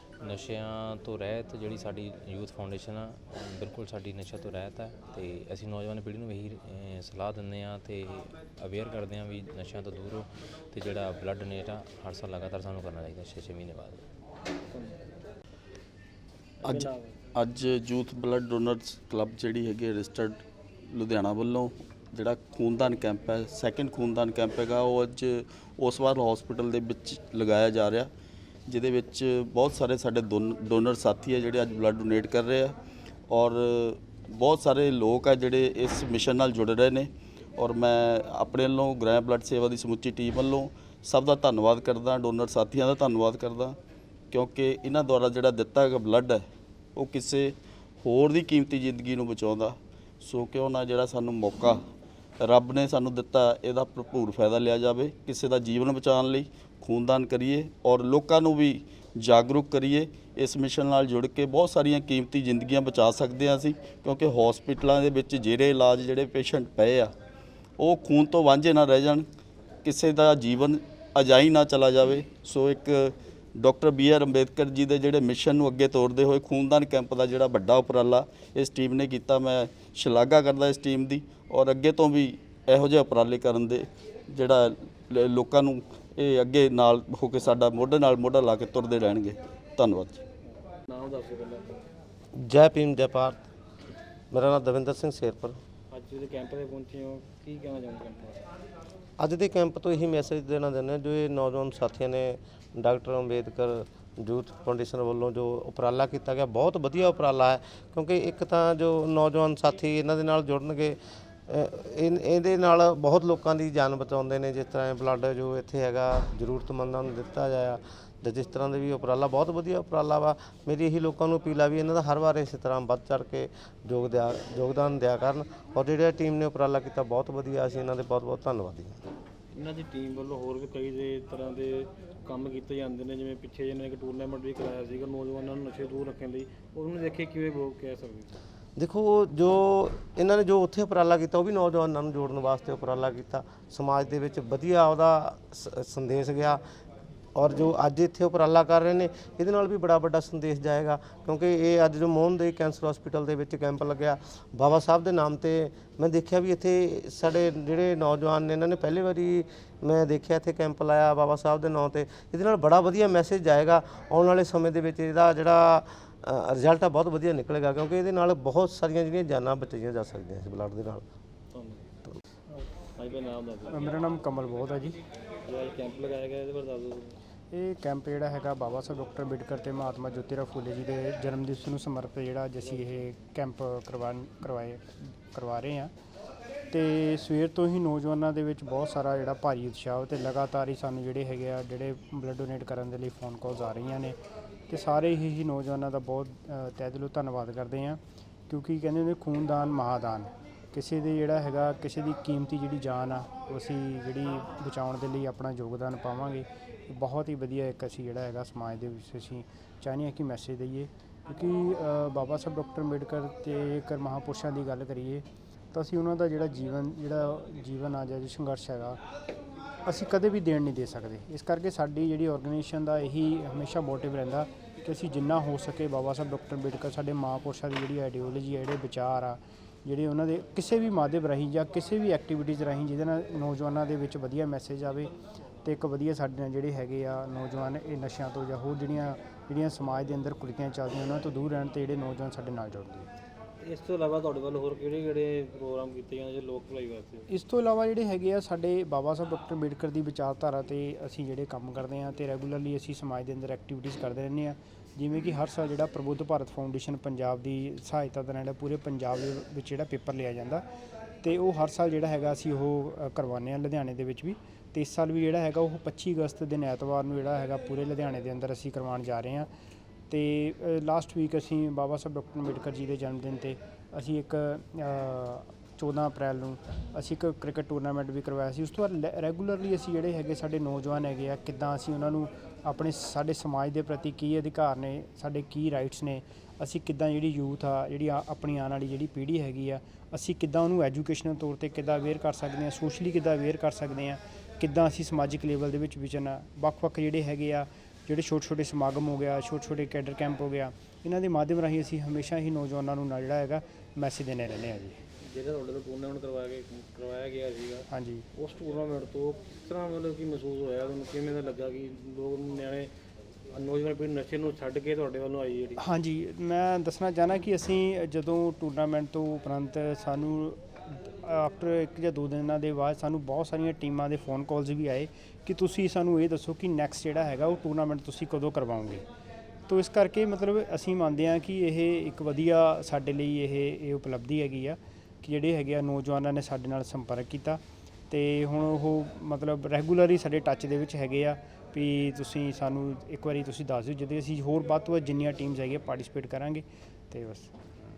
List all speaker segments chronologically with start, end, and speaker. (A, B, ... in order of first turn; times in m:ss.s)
0:00.2-0:14.0 A
0:14.7-0:15.0 B
0:16.6-0:20.4 C
0:16.6-0:17.2 B
0:20.9-0:28.1 C
0:28.7-0:32.8 C
0:33.3-0:43.8 C
0:44.3-0:46.4 C
0:47.0-0:47.5 C
0:48.0-0:51.8 C
0:52.4-1:07.1 C
1:07.8-1:09.2 C
1:09.8-1:30.2 C
1:30.4-1:31.8 B
1:32.4-1:33.4 D
1:34.3-1:35.6 D
1:35.9-1:38.4 B
1:39.2-1:51.0 D
1:51.5-2:09.0 D
2:09.5-2:18.4 B
2:18.8-2:26.6 D
2:27.3-2:51.0 D
2:51.5-2:51.9 B
2:52.6-2:53.7 B
2:53.7-2:55.0 E
2:55.5-2:57.2 B
2:57.5-3:05.9 E
3:06.7-3:14.2 E
3:14.7-3:39.0 E
3:39.8-3:55.1 E
3:55.6-4:03.1 E
4:03.6-4:07.3 B
4:07.3-4:20.6 E
4:21.2-4:29.5 E
4:30.1-5:05.0 E
5:05.3-5:07.8 B
5:07.9-5:08.2 E
5:08.4-5:12.9 B
5:13.6-5:15.8 B
5:15.8-5:29.0 E
5:29.7-5:47.6 E